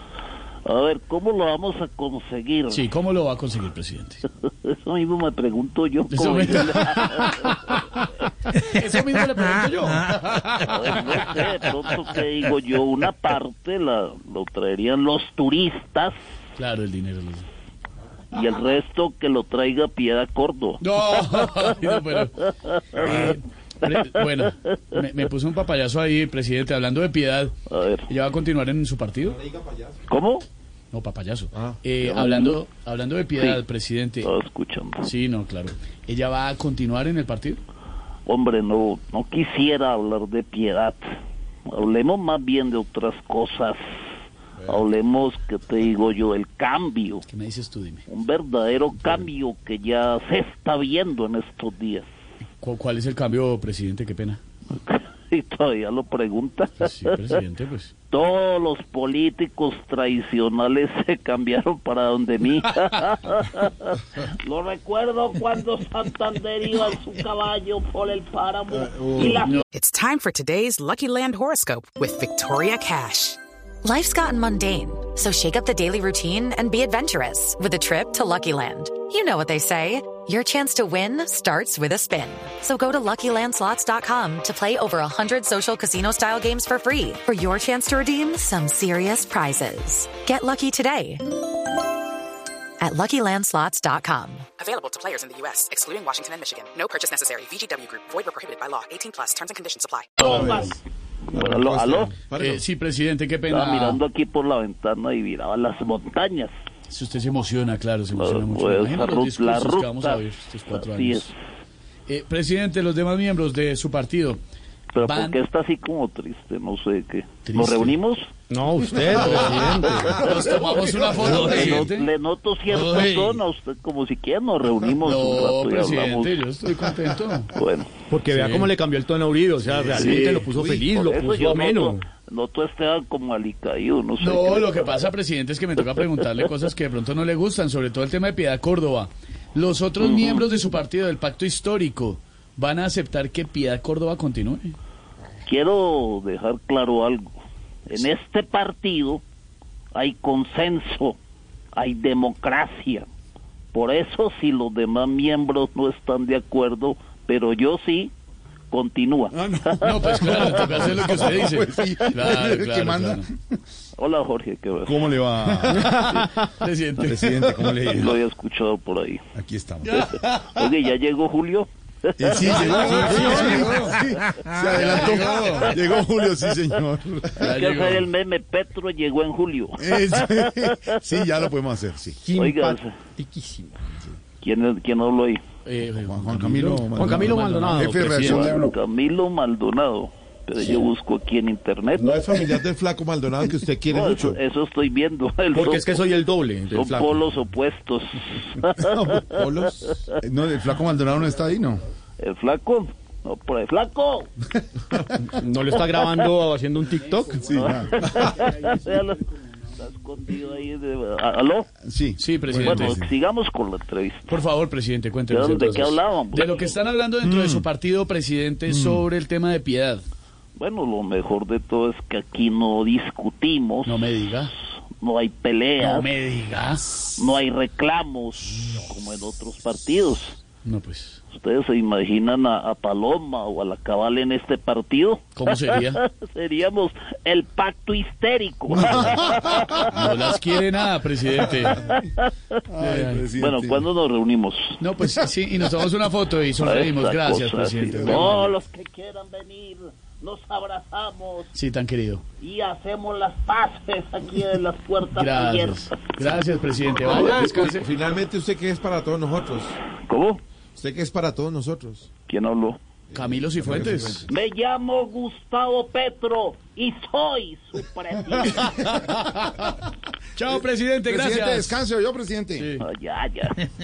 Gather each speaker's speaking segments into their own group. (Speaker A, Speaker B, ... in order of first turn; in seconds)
Speaker A: 0.7-2.8, 4.4-8.1, 10.5-16.2, 18.3-20.8, 22.7-23.3, 27.7-28.1, 30.1-30.5, 32.0-32.5, 33.4-33.6, 34.2-35.1, 38.3-41.1, 41.7-43.8, 44.6-47.3, 48.1-52.1, 54.7-57.2, 58.1-69.6, 100.2-100.8, 101.3-102.2, 103.5-106.5, 108.2-110.2, 110.7-111.3, 114.9-118.3, 119.2-126.4, 127.5-127.9, 130.8-134.8, 140.0-140.4, 145.4-147.4, 147.9-149.2, 149.9-151.2, 151.8-153.1, 153.7-158.1, 158.7-161.1, 164.0-165.1, 165.8-166.4, 167.7-169.2, 169.9-173.6, 174.8-175.2, 177.4-180.9, 182.3-183.0, 184.4-185.4, 188.1-192.4, 193.9-196.1, 196.7-200.1, 202.2-204.3, 205.7-206.3, 207.6-209.3, 209.8-211.7, 212.6-214.4, 215.3-216.7, 220.6-224.0, 225.0-226.1, 227.2-230.4, 231.3-240.2, 241.7-242.6, 243.4-244.8, 246.6-251.5, 252.4-256.1, 260.0-260.4, 262.3-262.8, 264.3-268.9, 272.8-273.6
Speaker B: 2.7-4.2, 6.1-7.8, 8.5-11.8, 16.6-17.5, 20.8-27.5, 28.1-29.5, 30.9-34.3, 35.0-37.6, 47.3-48.0, 52.6-54.4, 56.8-57.9, 100.3-100.7, 102.3-104.0, 106.9-111.3, 112.1-114.4, 115.0-115.4, 117.5-118.0, 119.0-122.1, 125.0-127.5, 128.3-128.7, 129.7-130.5, 134.2-144.8, 159.8-163.3, 165.7-167.5, 172.4-174.0, 174.7-175.8, 177.4-178.1, 185.7-188.5, 206.9-209.0, 212.2-213.0, 214.3-220.1, 223.8-224.5, 225.8-227.1, 230.7-231.2, 235.4-236.0, 239.8-241.9, 242.8-243.3, 244.8-248.5, 251.5-252.2, 255.1-257.9, 263.1-264.2, 268.5-269.8, 270.4-271.8, 272.6-272.8
Speaker C: 29.5-30.0, 100.4-100.7, 101.3-102.6, 192.0-194.4, 199.3-199.9, 257.1-259.8, 260.8-262.1
Speaker D: 69.7-73.4, 94.6-100.1
Speaker E: 73.8-91.2, 92.8-94.5
Speaker F: 118.5-120.2, 121.2-121.8, 122.8-123.3, 128.1-132.0, 172.9-173.9, 182.2-183.8, 187.0-188.5, 195.5-197.2, 205.3-207.4
Speaker G: 120.2-121.2, 159.3-163.6, 164.8-166.2, 167.0-168.2, 169.3-170.6, 172.2-177.5, 179.8-182.2, 186.0-188.8, 198.8-199.3, 200.2-201.8, 204.6-205.3, 207.3-208.1, 211.8-213.1, 217.2-217.7, 218.7-219.1, 238.8-239.9, 242.7-243.9, 263.1-264.3, 268.5-269.2, 270.5-272.7